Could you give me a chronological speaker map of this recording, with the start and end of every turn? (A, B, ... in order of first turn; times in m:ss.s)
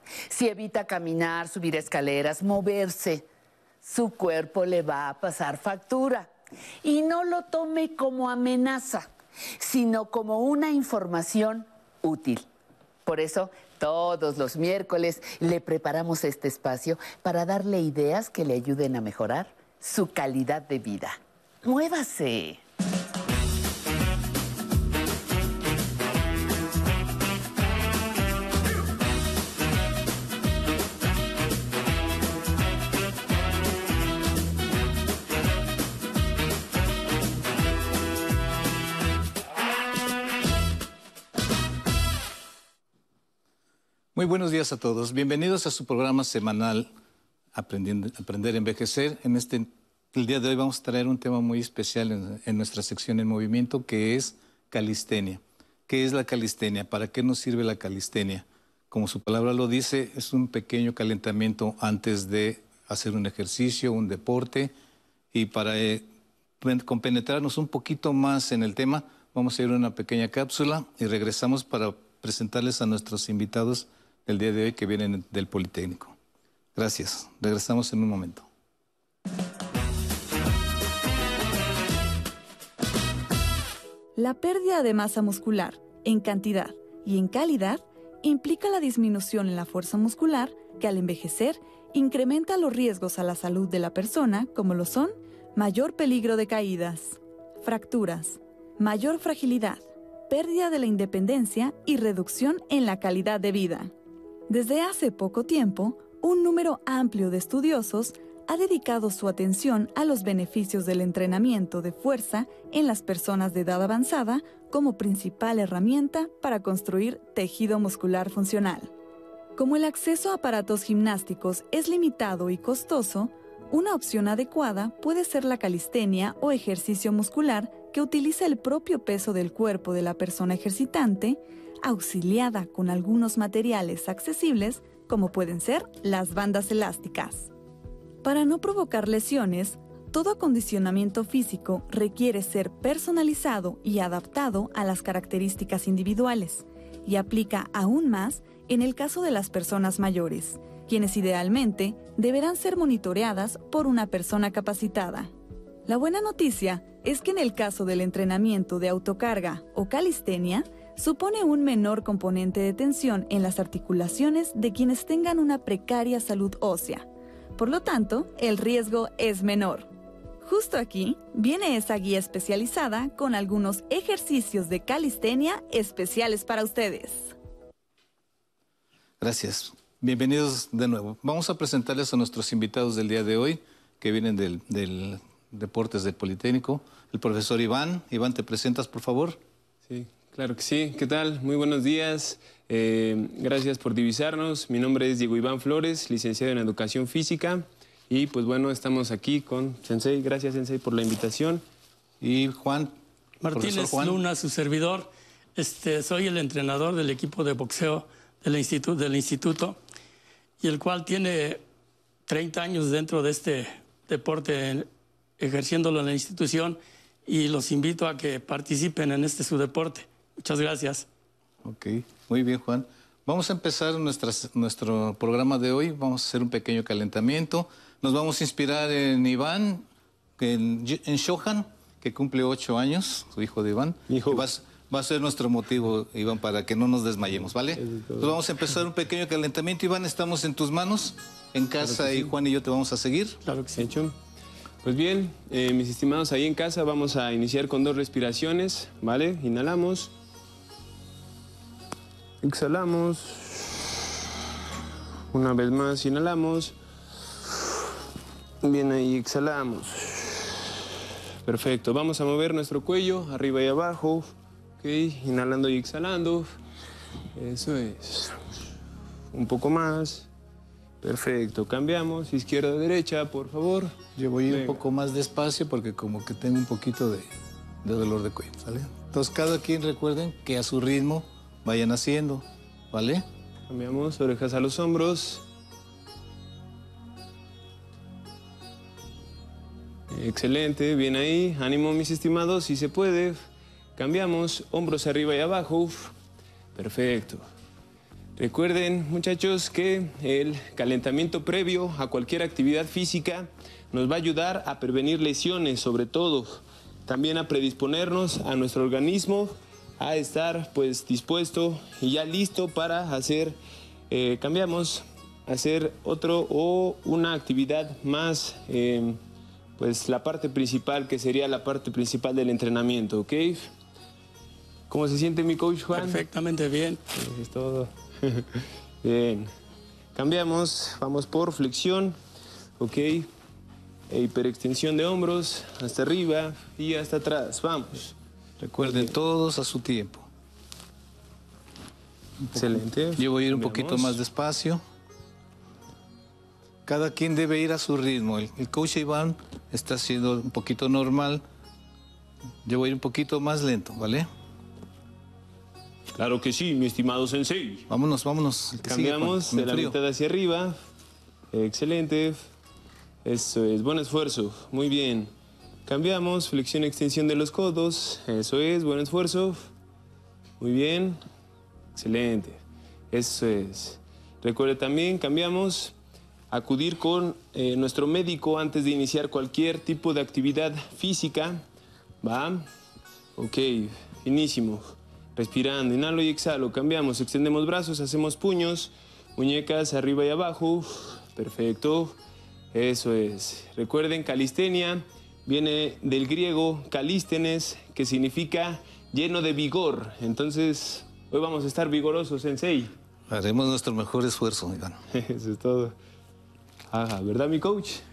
0:00.3-0:03.3 A
0:03.8-0:06.3 A
0:06.8-0:12.5 A
0:13.0-0:22.6 A
0:44.2-0:46.9 B
0:47.5-1:04.7 B
1:05.3-1:06.0 B
1:06.6-1:16.2 B
1:16.8-1:18.5 B
1:24.2-1:43.9 C
1:44.5-1:58.9 C
1:59.6-2:17.5 C
2:18.2-2:35.3 C
2:35.9-2:47.1 C
2:47.6-2:49.9 C
2:50.4-2:57.3 C
2:59.2-3:09.4 B
3:09.9-3:21.6 D
3:22.2-3:22.9 B
3:23.4-3:29.8 E
3:23.5-3:24.2 B
3:30.6-3:31.6 E
3:32.3-3:41.1 E
3:41.6-3:49.9 B
3:50.4-4:03.4 B
3:54.1-3:54.5 D
3:57.8-3:58.4 D
4:01.8-4:02.3 D
4:03.4-4:03.9 E
4:03.8-4:04.1 D
4:04.8-4:10.1 D
4:12.4-4:13.9 D
4:15.3-4:16.8 D
4:18.6-4:20.7 D
4:21.4-4:24.3 D
4:24.8-4:26.5 D
4:27.4-4:28.4 D
4:29.3-4:30.3 D
4:31.0-4:33.9 D
4:34.2-4:37.3 B
4:34.5-4:34.8 D
4:37.8-4:43.2 B
4:43.7-4:45.4 D
4:50.1-4:53.4 D
4:54.0-4:56.1 D
4:56.8-4:57.4 D
4:58.4-5:13.6 D
5:14.1-5:19.2 D
5:19.8-5:23.7 D
5:24.9-5:26.2 D
5:25.9-5:27.0 E
5:27.1-5:29.5 D
5:30.2-5:32.2 D
5:32.8-5:33.3 D
5:34.1-5:38.2 D
5:38.6-5:40.3 B
5:38.8-5:39.1 D
5:42.4-5:44.8 B
5:42.5-5:44.2 D
5:46.9-5:51.4 B
5:52.6-5:54.3 B
5:56.2-5:57.9 D
5:57.9-6:00.0 B
5:58.8-6:00.8 D
6:01.5-6:02.4 D
6:03.2-6:05.3 D
6:05.9-6:09.7 D
6:10.6-6:11.2 D
6:12.0-6:12.6 D
6:13.1-6:16.0 D
6:16.5-6:21.6 D
6:22.2-6:22.6 D
6:23.4-6:32.2 D
6:32.7-6:42.9 D
6:43.3-6:45.0 B
6:45.1-6:46.0 D
6:46.9-6:48.0 D